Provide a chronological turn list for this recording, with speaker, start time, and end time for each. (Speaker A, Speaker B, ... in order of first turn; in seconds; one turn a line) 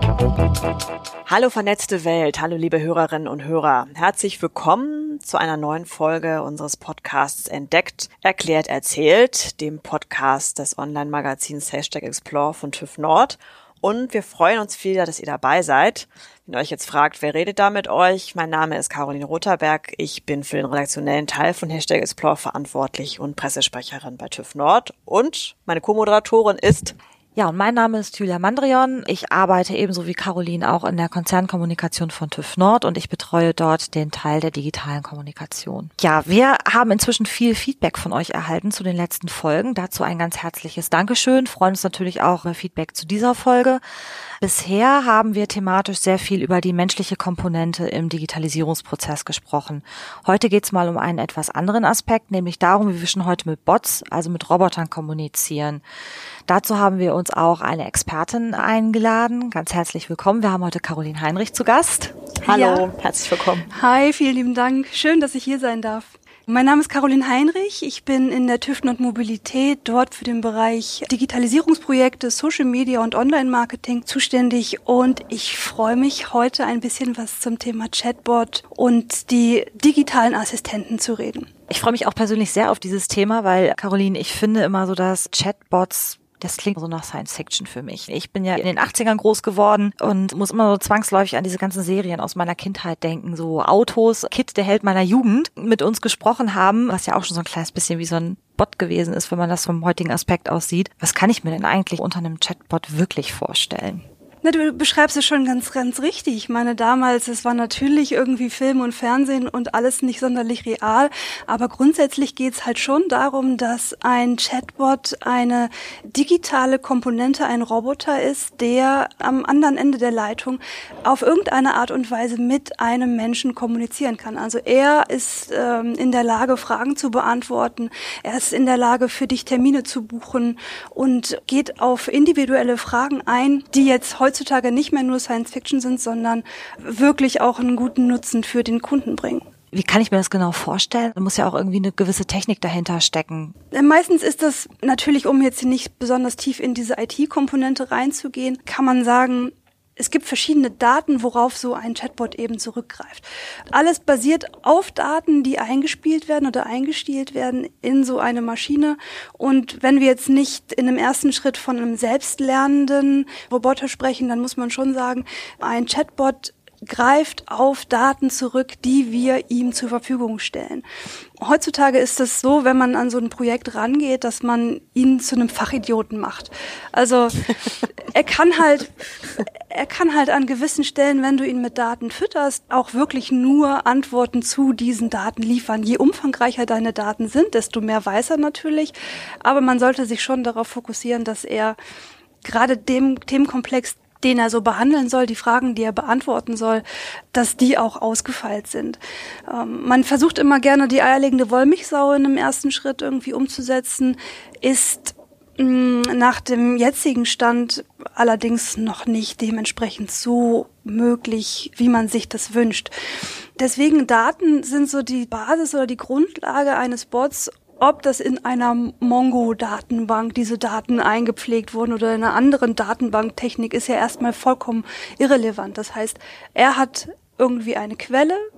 Speaker A: 1.3-27.0
Speaker B: 27.4-43.8
Speaker B: 44.4-55.8
Speaker B: 56.5-62.2
Speaker C: 62.5-62.9
Speaker A: 62.5-63.7
Speaker C: 63.7-81.5
Speaker B: 81.7-104.0
Speaker C: 104.4-139.4
Speaker B: 139.7-143.6
Speaker C: 143.7-170.9
Speaker C: 171.4-178.9
Speaker C: 179.7-191.8
Speaker C: 192.4-212.9
Speaker C: 213.6-228.4